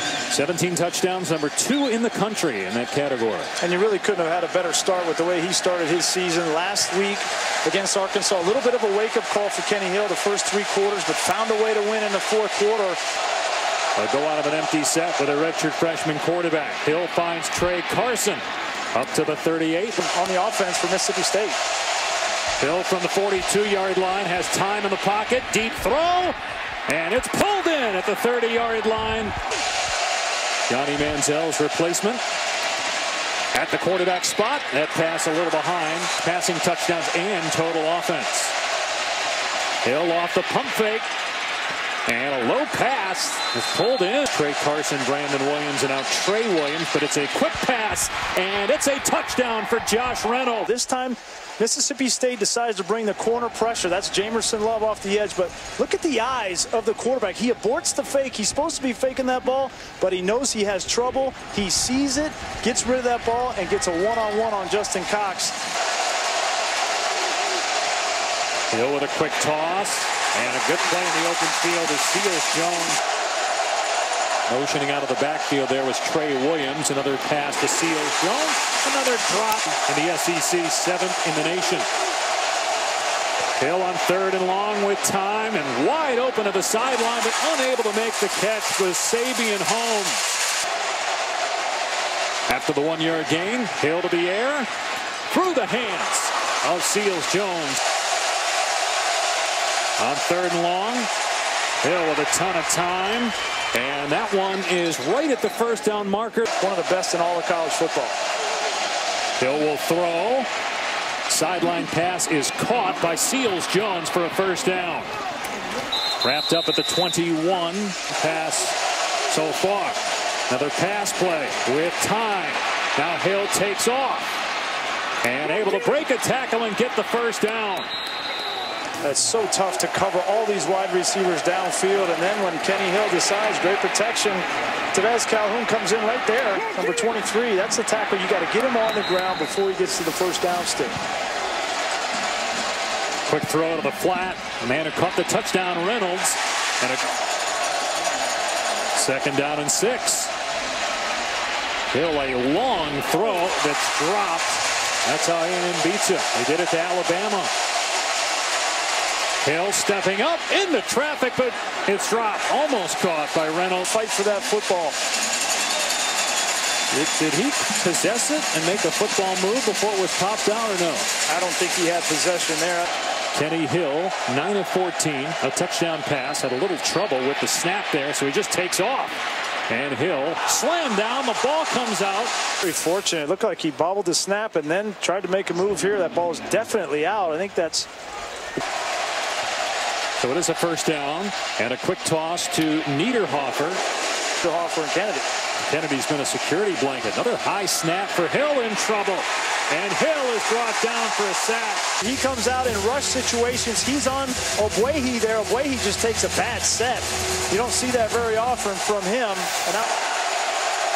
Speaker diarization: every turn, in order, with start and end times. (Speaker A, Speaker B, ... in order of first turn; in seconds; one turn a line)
Speaker A: 0.3-3.5
Speaker B: 3.6-13.0
Speaker A: 13.9-20.1
Speaker B: 20.0-21.6
Speaker A: 22.6-29.4
Speaker A: 30.7-32.2
Speaker A: 33.5-38.5
Speaker A: 39.8-41.1
Speaker A: 42.0-50.7
Speaker B: 50.6-65.6
Speaker A: 68.7-73.0
Speaker A: 74.5-81.9
Speaker A: 83.6-90.4
Speaker A: 92.5-94.7
Speaker A: 95.2-97.8
Speaker A: 100.0-101.1
Speaker A: 101.8-106.5
Speaker B: 106.6-108.2
Speaker A: 109.4-110.5
Speaker A: 111.3-115.1
Speaker A: 116.2-124.3
Speaker A: 125.2-127.9
Speaker B: 129.0-141.0
Speaker A: 143.2-147.0
Speaker A: 148.9-150.3
Speaker A: 151.9-157.5
Speaker A: 159.4-163.9
Speaker B: 163.9-165.0
Speaker A: 166.9-171.1
Speaker B: 171.3-172.9
Speaker A: 173.3-182.3
Speaker B: 182.6-187.9
Speaker A: 190.2-193.8
Speaker B: 194.4-195.3
Speaker A: 195.6-201.8
Speaker B: 202.0-209.9